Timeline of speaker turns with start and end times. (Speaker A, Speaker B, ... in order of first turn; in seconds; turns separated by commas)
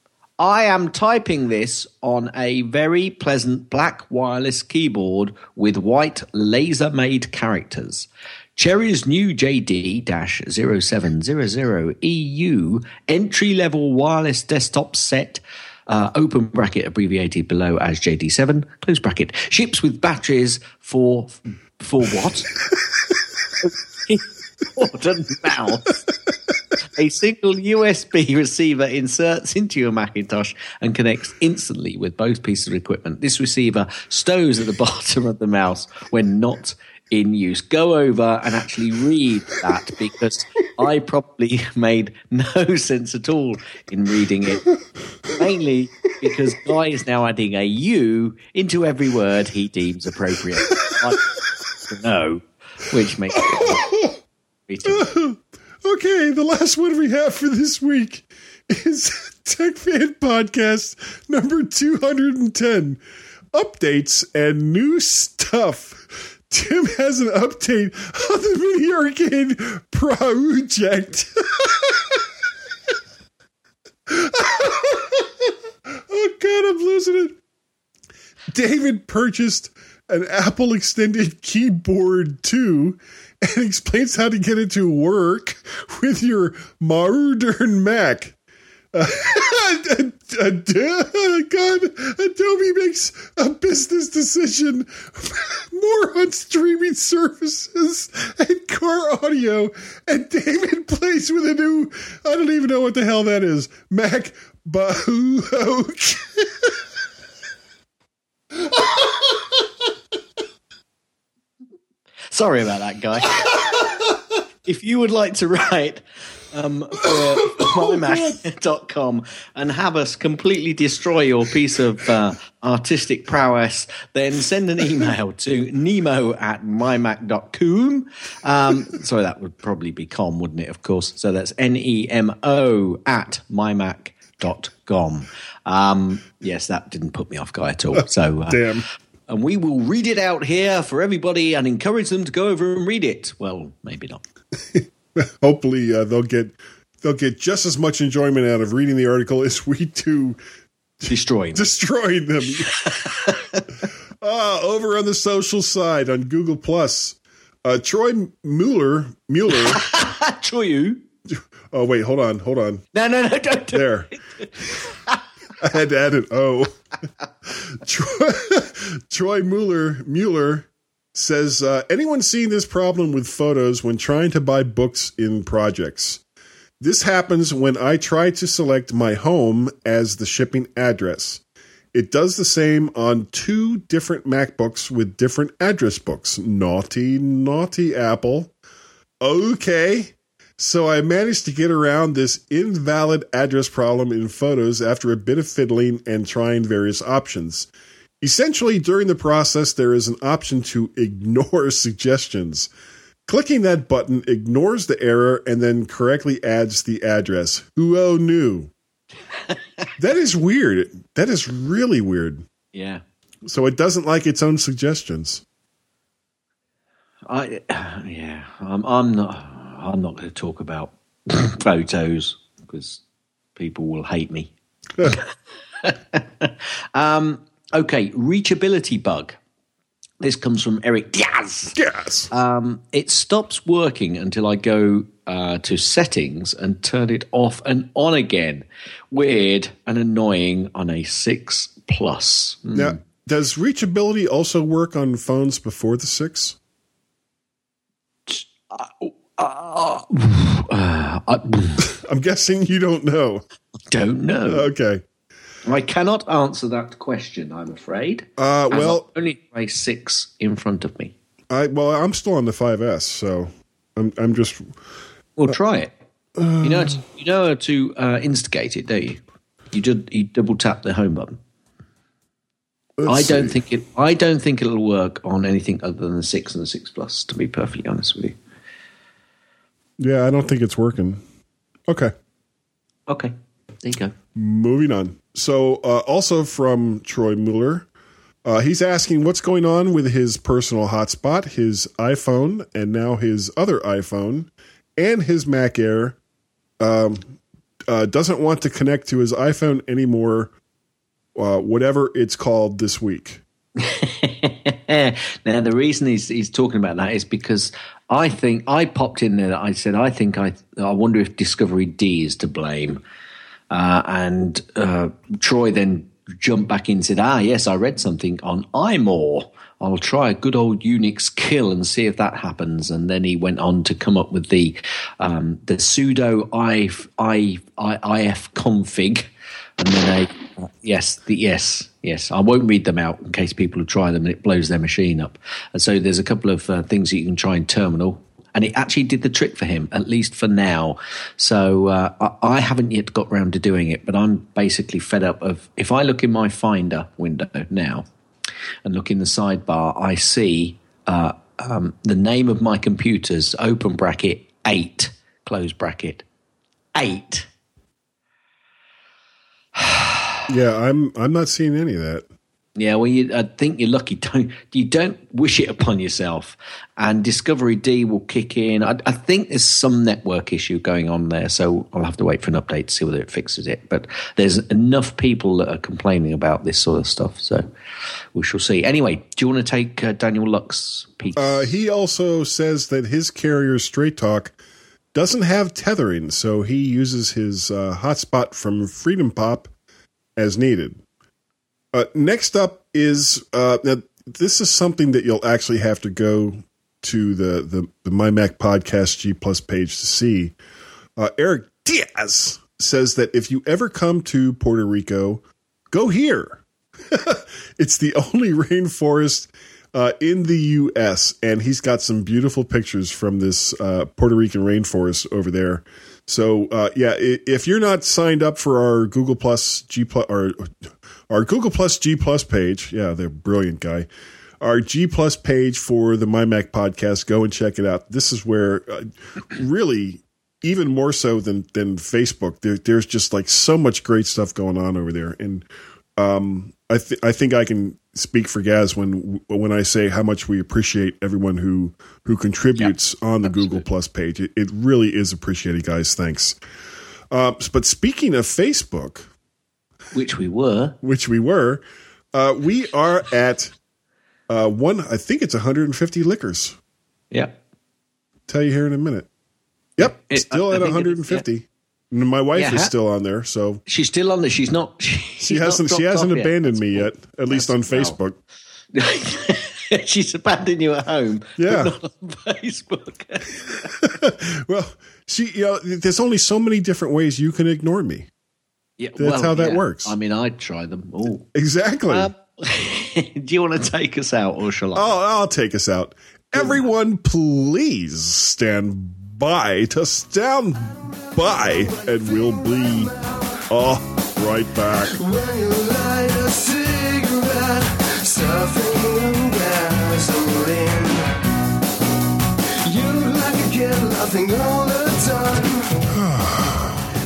Speaker A: 0.4-22.6, Speaker A: 23.6-26.0, Speaker A: 26.9-44.7, Speaker A: 45.3-51.3, Speaker A: 51.8-53.9, Speaker B: 53.3-54.2, Speaker A: 54.7-55.1, Speaker B: 54.9-63.0, Speaker B: 63.5-72.2, Speaker B: 74.1-77.4, Speaker B: 78.5-88.4, Speaker B: 88.9-106.8, Speaker B: 108.7-109.0, Speaker A: 112.3-113.8, Speaker A: 114.7-138.7, Speaker B: 138.5-138.9, Speaker A: 139.3-144.2, Speaker B: 144.7-150.4, Speaker A: 151.1-151.7, Speaker B: 151.6-152.7, Speaker A: 152.8-153.6, Speaker B: 154.2-159.8, Speaker A: 159.5-161.0, Speaker B: 161.3-162.8, Speaker A: 162.9-165.2, Speaker B: 163.7-164.1, Speaker B: 165.6-166.8, Speaker B: 167.6-176.2, Speaker B: 176.8-181.4, Speaker B: 181.9-188.5, Speaker B: 189.2-197.7, Speaker B: 198.2-202.7, Speaker B: 203.3-208.7, Speaker A: 209.5-209.9, Speaker B: 210.0-212.5, Speaker A: 212.7-213.0, Speaker B: 213.5-215.4, Speaker A: 217.3-223.0, Speaker A: 223.6-225.3, Speaker A: 225.8-229.4, Speaker A: 230.2-231.8, Speaker B: 231.7-232.3, Speaker A: 232.3-243.0, Speaker B: 242.7-246.6, Speaker A: 248.3-251.9, Speaker B: 251.8-253.4, Speaker A: 253.9-254.7, Speaker B: 254.5-255.0, Speaker A: 255.7-261.1, Speaker B: 258.4-259.1, Speaker B: 261.5-264.7, Speaker A: 265.4-265.9, Speaker B: 266.4-267.0, Speaker A: 266.6-269.2, Speaker A: 269.7-271.4, Speaker B: 273.0-273.6, Speaker A: 273.1-278.4, Speaker B: 280.0-281.2, Speaker B: 281.9-282.1, Speaker A: 283.1-284.1, Speaker B: 284.4-287.9, Speaker B: 288.4-296.2, Speaker B: 296.8-297.4, Speaker B: 297.9-300.5, Speaker B: 301.4-303.4, Speaker A: 303.8-313.0, Speaker A: 313.7-348.1, Speaker A: 348.9-356.2, Speaker A: 356.9-357.5, Speaker A: 359.8-360.4, Speaker B: 360.5-362.3, Speaker A: 362.8-377.7, Speaker A: 378.4-381.7, Speaker B: 381.4-384.6, Speaker B: 385.1-389.7, Speaker B: 390.4-391.0, Speaker B: 391.9-400.6, Speaker B: 401.2-420.7, Speaker B: 421.3-424.1, Speaker B: 424.6-446.6, Speaker A: 442.8-443.9, Speaker B: 447.3-449.3, Speaker A: 450.1-451.0, Speaker B: 451.0-451.8, Speaker B: 452.3-453.7, Speaker B: 454.5-456.8, Speaker A: 457.3-457.6, Speaker B: 458.5-459.3, Speaker B: 460.0-463.8, Speaker A: 460.0-461.4, Speaker A: 462.6-462.9, Speaker A: 463.9-468.2, Speaker B: 465.4-468.4, Speaker A: 468.9-473.9, Speaker B: 471.6-471.9, Speaker B: 474.0-478.3, Speaker A: 479.0-481.5, Speaker B: 479.2-480.1, Speaker B: 481.5-482.3, Speaker A: 482.1-485.1, Speaker B: 484.9-493.1, Speaker A: 486.6-486.8, Speaker C: 491.7-493.1, Speaker B: 493.7-495.1, Speaker C: 495.1-501.3, Speaker C: 502.8-506.1, Speaker B: 506.1-507.1